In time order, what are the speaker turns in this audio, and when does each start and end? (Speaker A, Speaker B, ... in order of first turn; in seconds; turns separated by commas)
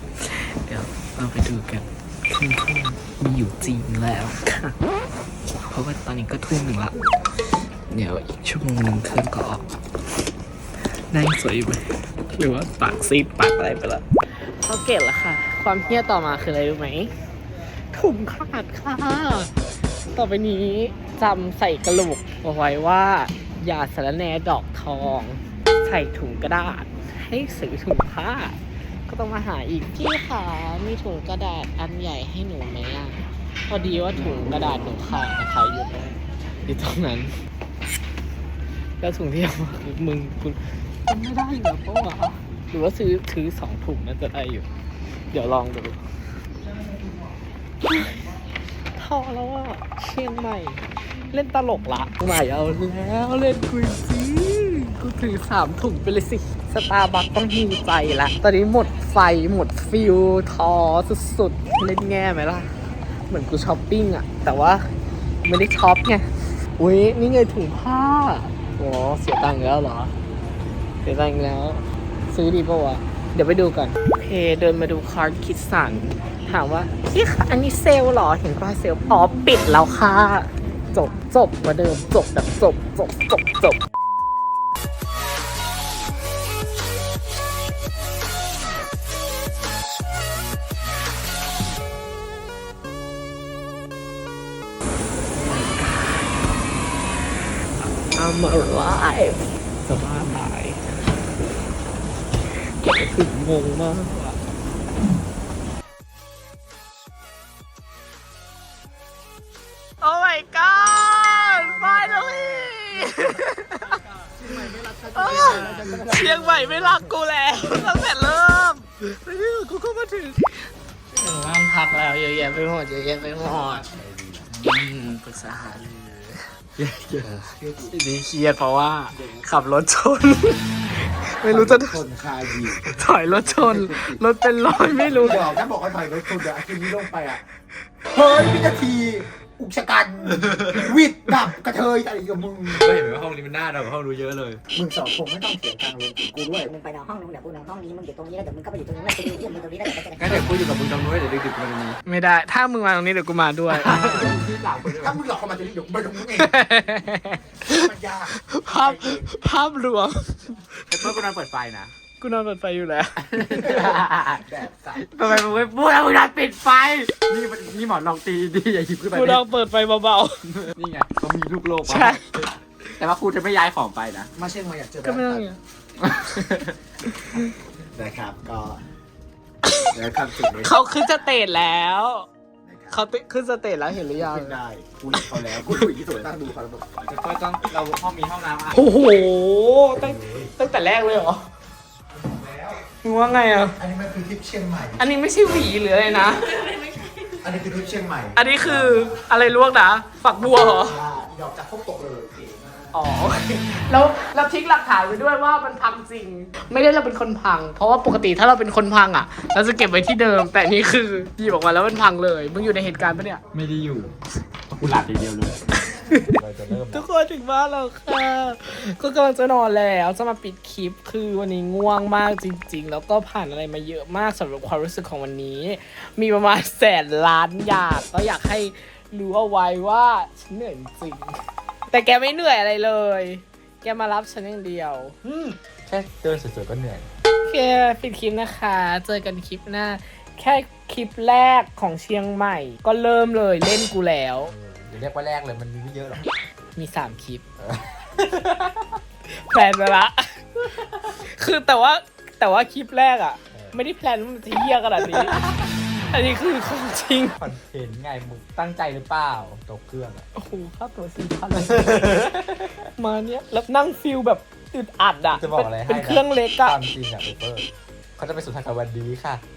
Speaker A: 0.2-4.8, Speaker A: 5.6-7.0, Speaker A: 7.9-9.7, Speaker A: 11.1-14.0, Speaker A: 14.6-17.1, Speaker A: 17.9-37.4, Speaker A: 39.0-44.7, Speaker A: 45.3-46.1, Speaker A: 47.9-48.2, Speaker A: 48.9-62.7, Speaker A: 63.3-64.9, Speaker A: 65.4-70.1, Speaker A: 71.0-83.8, Speaker A: 95.3-96.4, Speaker A: 98.0-100.8, Speaker A: 102.8-104.4, Speaker A: 110.0-114.0, Speaker B: 111.5-112.9, Speaker B: 114.2-117.1, Speaker A: 115.1-123.9, Speaker C: 115.3-115.9, Speaker B: 123.9-124.5, Speaker A: 124.5-125.9, Speaker C: 126.0-126.2, Speaker C: 126.8-127.4, Speaker B: 127.3-127.9, Speaker A: 127.8-132.0, Speaker B: 131.4-132.8, Speaker A: 132.8-135.5, Speaker B: 133.5-134.2, Speaker B: 135.0-137.4, Speaker B: 138.1-142.8, Speaker C: 140.4-140.9, Speaker C: 142.7-144.6, Speaker B: 144.7-146.8, Speaker D: 146.7-150.4, Speaker C: 150.1-152.0, Speaker A: 152.1-154.4, Speaker C: 153.7-155.2, Speaker B: 154.1-156.7, Speaker A: 156.3-161.1, Speaker B: 157.7-159.4, Speaker C: 160.9-161.9, Speaker A: 162.2-164.4, Speaker C: 163.3-164.2, Speaker B: 164.4-165.1, Speaker C: 164.9-169.4, Speaker A: 169.1-170.4, Speaker C: 170.4-174.3, Speaker A: 171.8-172.2, Speaker B: 174.3-175.5, Speaker A: 175.0-175.6, Speaker C: 176.0-176.8, Speaker A: 177.1-177.5, Speaker B: 177.9-178.8, Speaker A: 179.6-179.9, Speaker B: 179.9-181.4, Speaker A: 180.5-182.3, Speaker B: 182.6-183.0, Speaker A: 182.9-184.6, Speaker B: 184.0-187.0, Speaker A: 185.1-185.7, Speaker C: 187.0-188.9, Speaker A: 188.7-191.4, Speaker B: 190.0-190.5, Speaker B: 192.3-192.8, Speaker A: 192.8-193.8, Speaker B: 193.8-195.0, Speaker A: 195.0-197.3, Speaker B: 197.4-199.2, Speaker A: 198.3-201.0, Speaker B: 200.4-202.8, Speaker A: 202.9-213.4, Speaker C: 213.5-214.1, Speaker C: 214.7-217.1, Speaker A: 215.7-231.4, Speaker A: 231.9-235.2, Speaker C: 235.2-237.1, Speaker A: 237.4-244.5, Speaker C: 244.5-246.3, Speaker A: 246.8-247.4, Speaker C: 247.6-248.9, Speaker A: 249.2-250.5, Speaker C: 250.7-251.1, Speaker A: 251.1-255.4, Speaker C: 253.5-253.8, Speaker C: 255.0-255.6, Speaker A: 256.1-257.4, Speaker C: 257.4-260.3, Speaker A: 260.3-262.1, Speaker C: 261.5-262.9, Speaker A: 263.0-266.8, Speaker C: 265.3-269.4